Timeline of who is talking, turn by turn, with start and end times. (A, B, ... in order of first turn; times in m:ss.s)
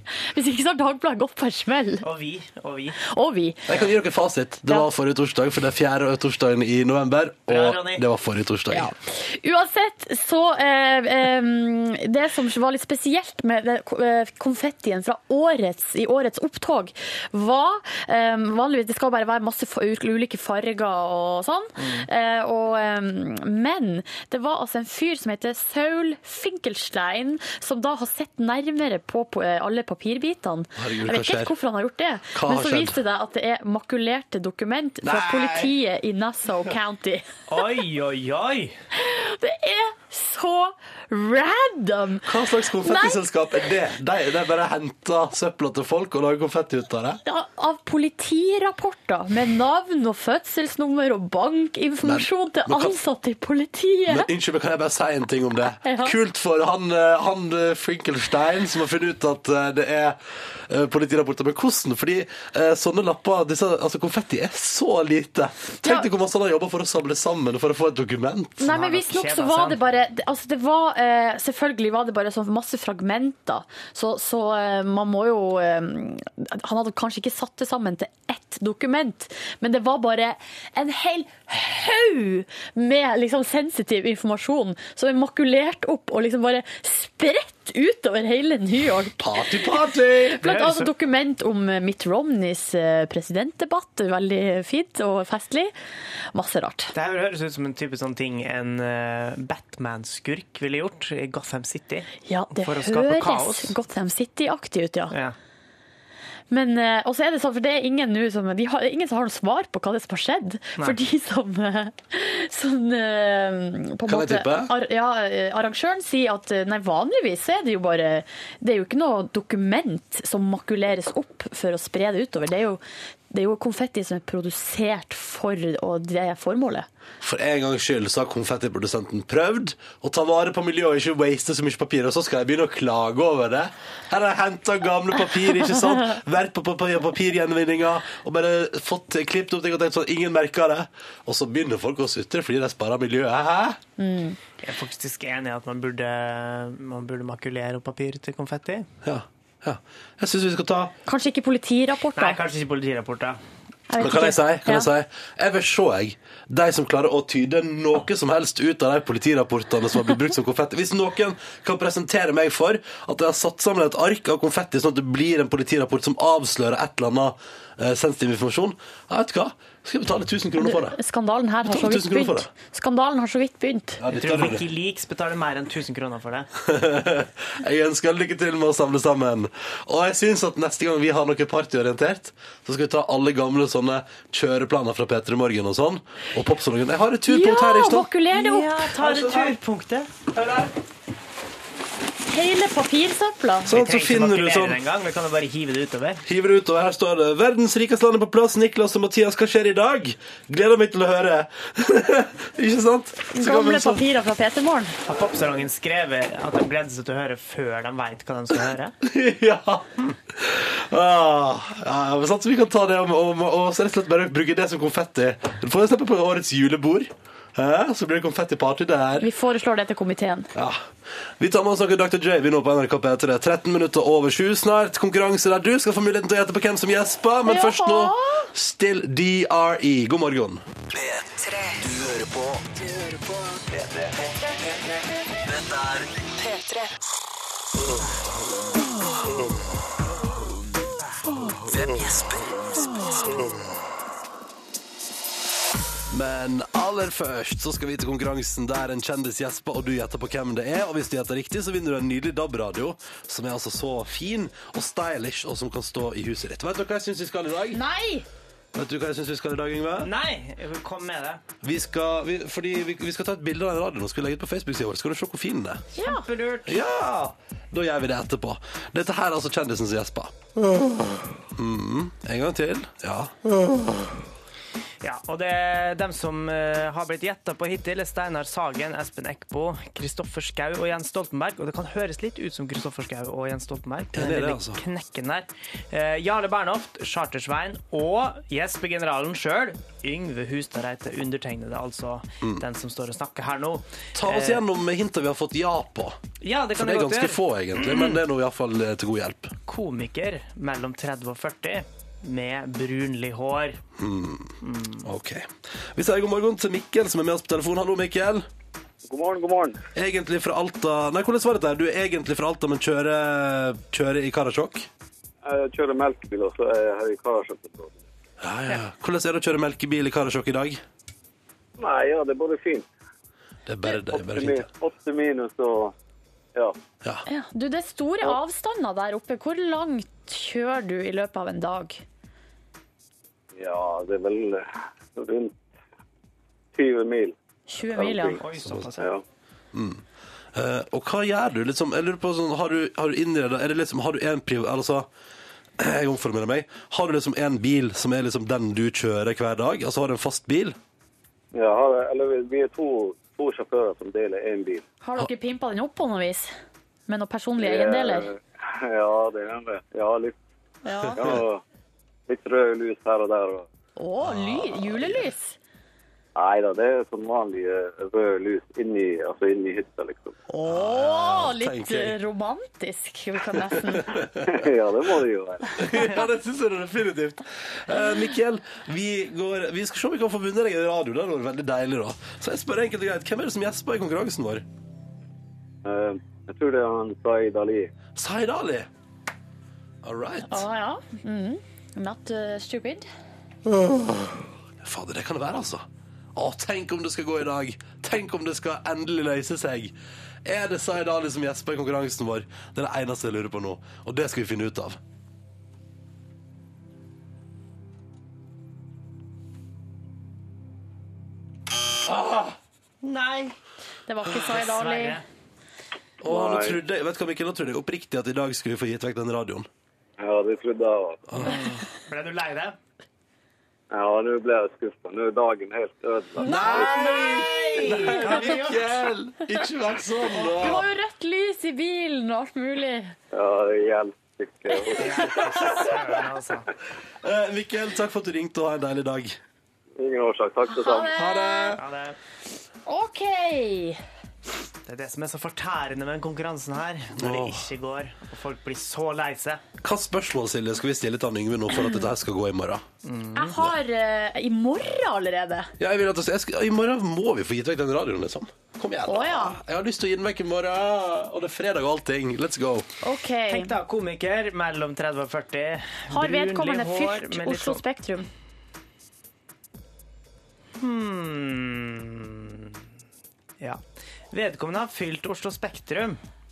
0:00.2-0:02.1 A
0:02.0-0:03.0 B
0:03.0-0:03.7 A
0:03.7-0:08.9 C
0:07.5-0:08.0 B
0:08.7-0:37.3 A
0:21.8-0:22.1 B
0:30.8-0:31.5 C
0:32.3-0:33.0 C
0:35.0-0:35.7 C
0:37.5-0:38.8 B
0:38.9-0:43.3 A
0:42.2-0:47.2 C
0:47.2-0:54.3 A
0:52.0-0:53.0 C
0:54.1-1:08.7 C
0:55.8-0:56.2 A
1:05.8-1:06.1 A
1:08.6-1:29.7 A
1:08.7-1:09.8 B
1:29.2-1:30.4 C
1:30.3-1:35.7 A
1:30.4-1:30.9 B
1:36.3-1:36.9 A
1:36.9-1:43.7 B
1:42.3-1:45.2 A
1:46.5-2:06.9 A
1:54.1-1:54.7 C
2:07.2-2:23.8 C
2:24.0-2:24.4 A
2:24.6-2:28.9 B
2:29.0-2:30.9 C
2:31.1-2:32.4 A
2:32.2-2:33.4 B
2:33.9-2:34.9 A
2:34.0-2:51.0 C
2:50.6-2:54.0 A
2:51.7-2:52.5 C
2:54.0-2:54.6 C
2:54.1-2:56.5 B
2:56.6-3:08.1 C
3:07.3-3:09.4 A
3:08.3-3:10.1 B
3:09.0-3:09.5 C
3:10.4-3:10.7 C
3:12.3-3:13.8 A
3:13.7-3:14.8 C
3:13.7-3:16.2 B
3:16.2-3:24.0 C
3:23.3-3:25.0 A
3:25.0-3:29.0 B
3:29.0-3:39.3 C
3:39.2-3:40.5 A
3:40.6-3:40.9 C
3:41.4-3:50.6 C
3:47.4-3:48.5 A
3:50.9-3:54.6 D
3:55.4-3:57.0 D
4:01.7-4:03.5 D
4:06.1-4:17.8 C
4:17.7-4:18.3 A
4:18.8-4:20.1 C
4:20.0-4:21.4 B
4:21.6-4:25.8 C
4:25.9-4:26.3 A
4:26.0-4:26.8 B
4:26.7-4:30.3 C
4:31.6-4:33.3 C
4:35.0-4:54.6 B
4:44.1-4:44.8 C
4:54.2-4:56.2 C
4:56.4-4:58.2 B
4:56.8-4:59.5 C
4:59.7-5:03.8 B
5:04.0-5:08.5 C
5:04.6-5:05.1 B
5:09.1-5:09.8 E
5:10.0-5:14.9 C
5:15.4-5:18.0 E
5:18.4-5:20.8 C
5:21.8-5:22.9 E
5:23.7-5:24.7 C
5:24.0-5:25.9 E
5:27.3-5:32.0 A
5:33.6-5:35.6 E
5:36.8-5:37.4 E
5:37.7-5:38.4 A
5:37.9-5:38.4 E
5:38.4-5:39.1 B
5:39.7-5:40.0 C
5:40.5-5:45.1 C
5:45.8-5:50.8 C
5:51.5-5:54.8 E
5:55.0-5:56.5 A
5:57.1-5:58.3 A
5:57.6-6:00.4 E
6:00.8-6:01.3 A
6:01.2-6:01.6 E
6:02.3-6:03.7 E
6:04.0-6:05.6 A
6:04.2-6:05.2 C
6:06.4-6:10.4 E
6:10.5-6:14.1 A
6:10.7-6:12.2 C
6:13.9-6:14.5 C
6:14.4-6:15.8 E
6:15.8-6:24.6 C
6:25.8-6:27.9 E
6:28.2-6:28.9 C
6:30.0-6:30.6 C
6:30.5-6:33.1 A
6:34.8-6:39.9 C
6:40.4-6:45.0 C
6:52.1-6:52.6 C
6:53.0-6:53.6 B
6:54.1-6:55.2 A
6:54.4-6:55.2 B
6:56.2-6:59.7 C
6:56.2-6:56.8 E
7:00.2-7:01.2 E
7:01.3-7:01.6 C
7:01.4-7:02.8 B
7:03.9-7:06.9 E
7:06.4-7:10.8 C
7:06.4-7:08.5 A
7:06.9-7:09.0 B
7:10.5-7:13.2 A
7:13.3-7:15.3 E
7:14.7-7:15.1 A
7:15.0-7:16.7 B
7:17.2-7:19.4 C
7:20.0-7:21.1 E
7:20.7-7:21.8 A
7:21.2-7:21.8 C
7:21.8-7:22.2 B
7:22.9-7:24.0 A
7:24.9-7:29.6 B
7:27.2-7:27.6 C
7:29.8-7:32.8 C
7:31.8-7:32.0 A
7:33.0-7:33.6 B
7:33.3-7:35.7 A
7:35.8-7:42.9 C
7:39.1-7:39.6 A
7:43.0-7:43.8 A
7:43.5-7:47.8 B
7:46.1-7:48.3 A
7:50.8-7:52.8 B
7:54.3-7:56.2 B